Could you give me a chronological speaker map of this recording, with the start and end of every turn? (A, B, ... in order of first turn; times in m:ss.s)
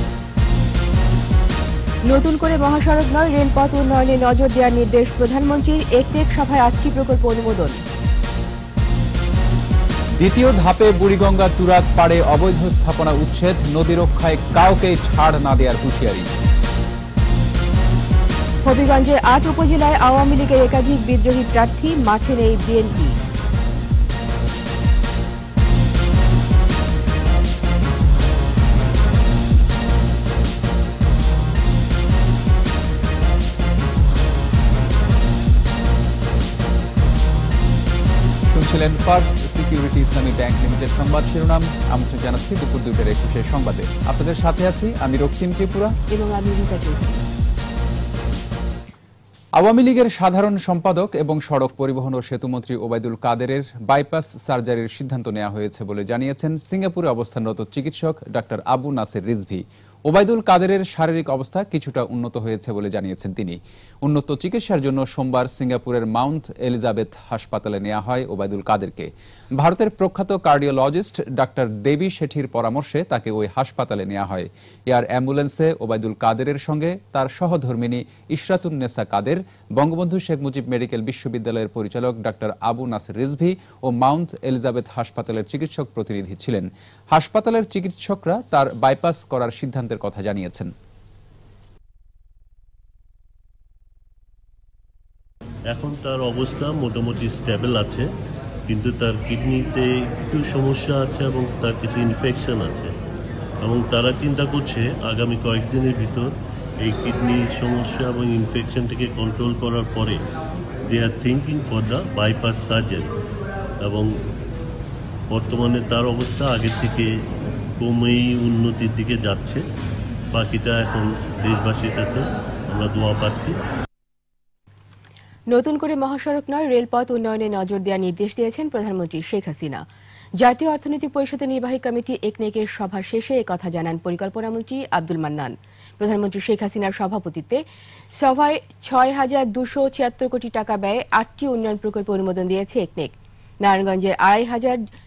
0:02.1-0:07.8 A
0:10.2-0:16.3 B
0:18.6-0:23.2 A
0:38.5-0:46.0 B
0:46.1-0:47.2 A
0:49.6-1:30.7 B
1:35.7-1:38.1 C
1:38.7-1:42.9 C
1:43.6-1:46.3 C
1:46.8-1:50.2 C
1:50.9-1:53.1 C
1:53.8-1:54.1 C
1:55.3-1:57.1 C
1:57.8-1:59.6 C
2:00.3-2:03.6 C
2:05.5-2:09.8 A
2:10.4-2:17.6 A
2:18.2-2:24.8 A